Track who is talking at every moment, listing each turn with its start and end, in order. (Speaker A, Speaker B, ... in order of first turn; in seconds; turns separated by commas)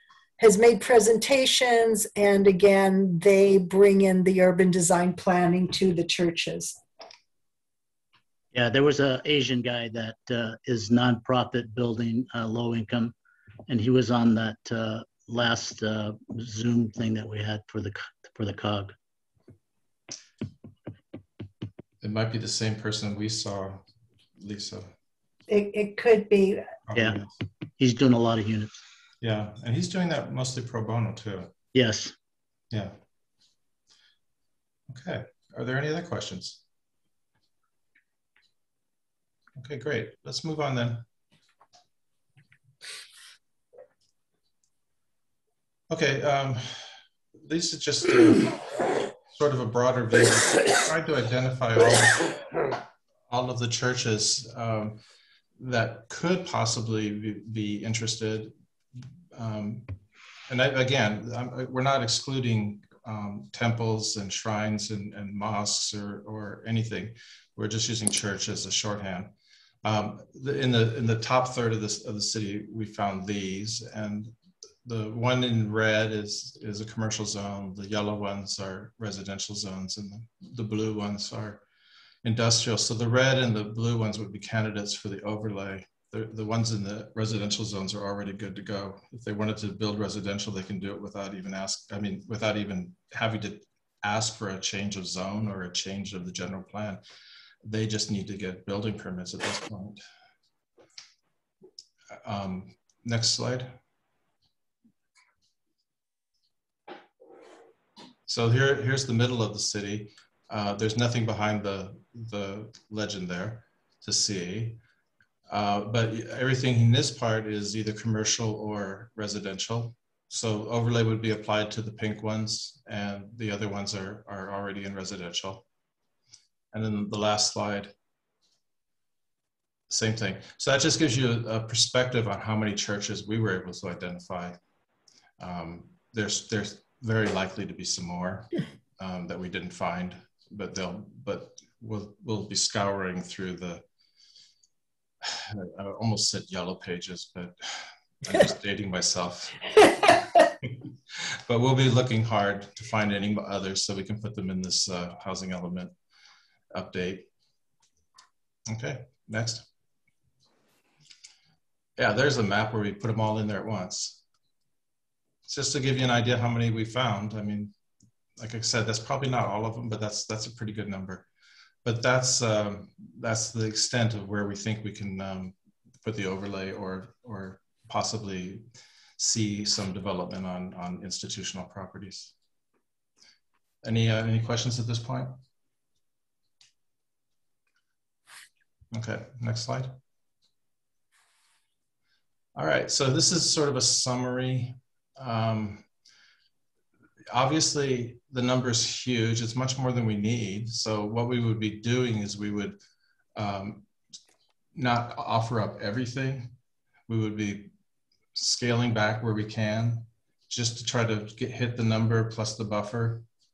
Speaker A: 0.4-6.8, Speaker B: 8.5-13.2, Speaker B: 13.7-18.9, Speaker C: 22.0-23.8, Speaker C: 24.4-24.9, Speaker A: 25.5-26.7, Speaker C: 26.9-27.3, Speaker B: 26.9-27.2, Speaker B: 27.8-28.8, Speaker C: 29.2-31.5, Speaker B: 31.7-32.1, Speaker C: 34.9-36.6, Speaker C: 39.6-41.0, Speaker C: 45.9-48.6, Speaker C: 49.3-52.3, Speaker C: 53.3-55.0, Speaker C: 55.6-58.5, Speaker C: 59.3-59.9, Speaker C: 60.5-69.3, Speaker C: 69.8-74.3, Speaker C: 74.8-81.6, Speaker C: 82.2-97.0, Speaker C: 97.6-100.0, Speaker C: 102.2-103.8, Speaker C: 108.3-114.8, Speaker C: 115.5-125.7, Speaker C: 126.7-127.9, Speaker C: 129.9-134.6, Speaker C: 135.4-143.8, Speaker C: 145.2-149.7, Speaker C: 151.5-155.9, Speaker C: 156.7-157.3, Speaker C: 158.7-159.7, Speaker C: 162.0-164.2, Speaker C: 165.5-167.7, Speaker C: 168.4-171.3, Speaker C: 171.8-178.6, Speaker C: 179.2-182.3, Speaker C: 183.8-185.3, Speaker C: 188.9-189.9, Speaker C: 192.6-195.9, Speaker C: 197.3-202.8, Speaker C: 203.4-203.8, Speaker C: 204.8-206.5, Speaker C: 207.1-207.7, Speaker C: 208.3-213.2